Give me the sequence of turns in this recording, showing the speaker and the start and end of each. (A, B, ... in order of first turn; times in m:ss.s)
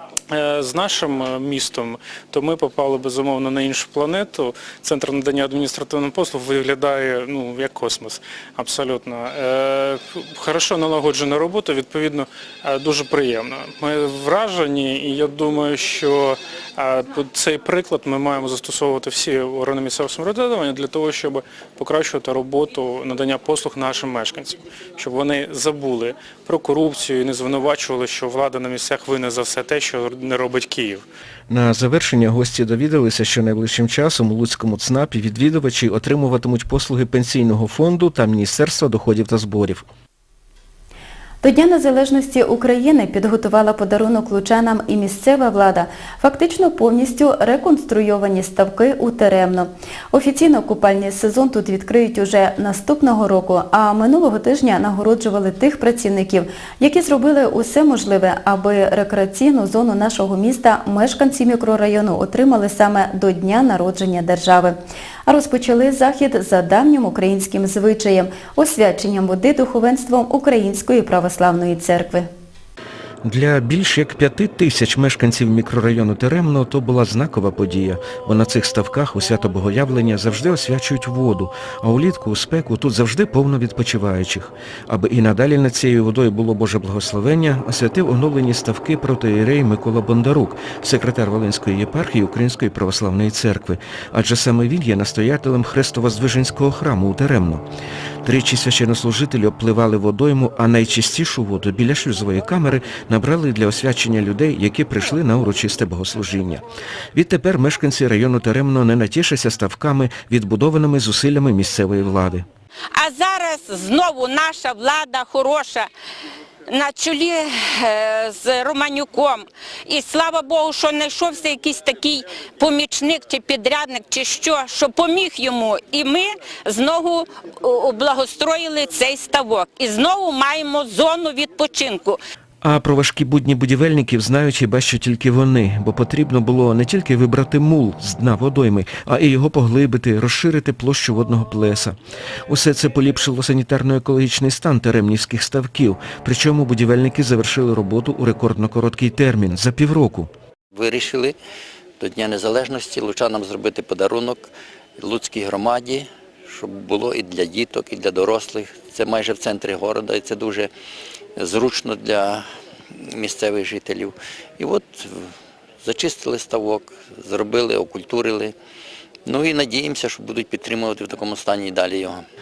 0:00.3-0:31.0 A
0:31.5-0:39.8 B
0:41.4-1:12.3 C
1:13.2-1:37.6 B
1:38.2-1:52.4 B
1:53.0-1:55.9 D
1:56.7-2:12.2 D
2:12.6-2:22.0 B
2:22.5-2:30.3 B
2:30.7-2:31.3 E
2:32.0-2:40.7 E
2:41.4-2:42.4 E
2:43.1-2:45.2 E
2:45.8-2:48.5 E
2:49.2-2:52.2 E